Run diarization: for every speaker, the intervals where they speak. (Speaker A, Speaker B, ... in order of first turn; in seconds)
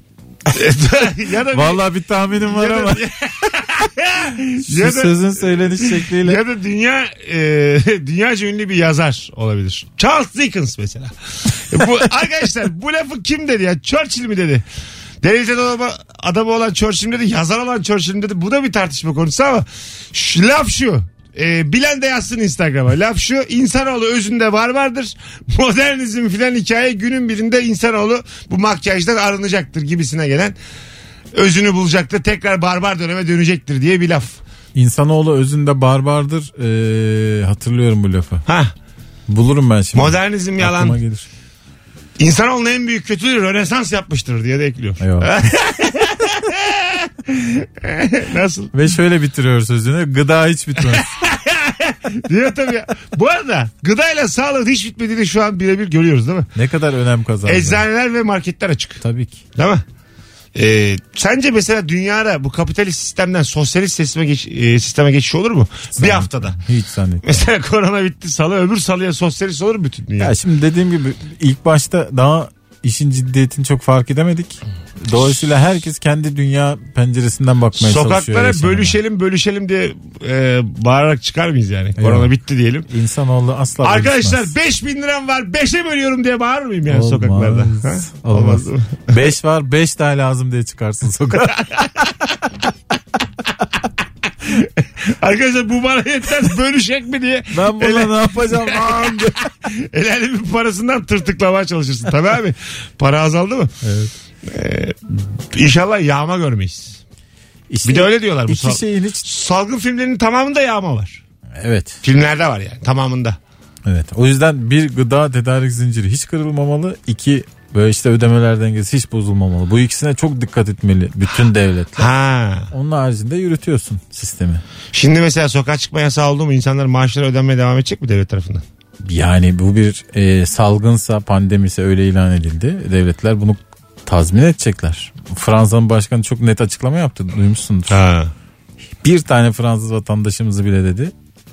Speaker A: 0.5-1.8, 2.4-14.6, 15.2-30.6, 31.3-34.4, 38.5-38.7, 39.9-41.0, 42.2-48.7, 50.8-56.5, 57.5-59.0, 59.5-59.8, 60.5-66.6, 67.2-70.3, 77.7-82.9, 83.8-89.1, 94.5-103.7, 104.5-107.0, 107.8-111.2, 112.0-113.4, 122.0-122.7, 124.9-128.6, 137.9-138.3
Speaker B: 1.5-3.0, 4.6-6.4, 34.7-38.4, 39.3-41.2, 45.0-45.4, 48.7-51.1, 56.5-57.8, 59.0-59.4, 65.9-67.4, 70.2-79.0, 82.0-82.3, 82.9-84.5, 86.9-92.1, 97.5-99.3, 103.8-104.1, 107.7-109.3, 111.6-112.0, 113.8-122.1, 122.7-124.6, 129.0-138.0, 139.0-141.1